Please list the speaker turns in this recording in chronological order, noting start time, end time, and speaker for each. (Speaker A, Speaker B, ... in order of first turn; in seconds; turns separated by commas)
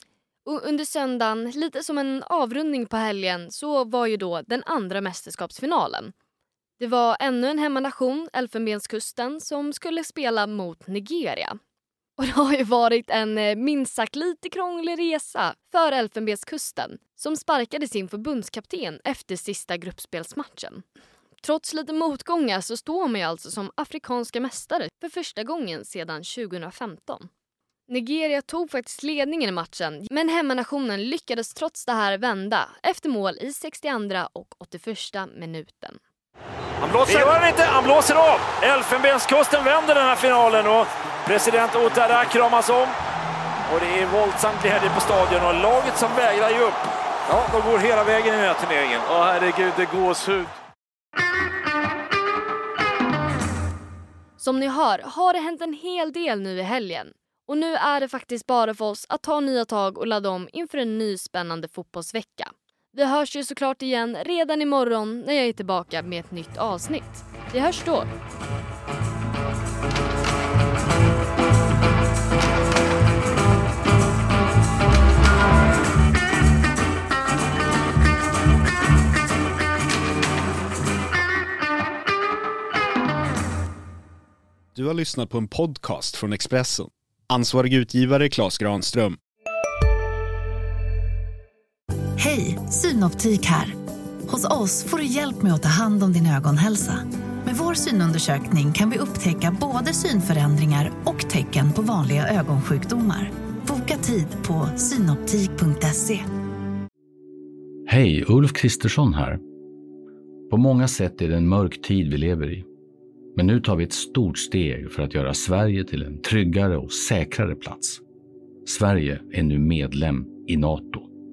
Speaker A: 0.4-6.1, Speaker A: 6.8-11.6, Speaker A: 12.2-20.8, Speaker A: 21.4-27.3, Speaker A: 27.9-36.0, Speaker B: 36.8-42.9, Speaker B: 43.7-50.5, Speaker A: 54.4-68.1, Speaker C: 84.7-89.2, Speaker D: 92.2-93.8, Speaker D: 94.3-106.2, Speaker E: 107.8-109.4, Speaker E: 110.5-112.7, Speaker E: 113.3-118.0, Speaker E: 118.6-121.1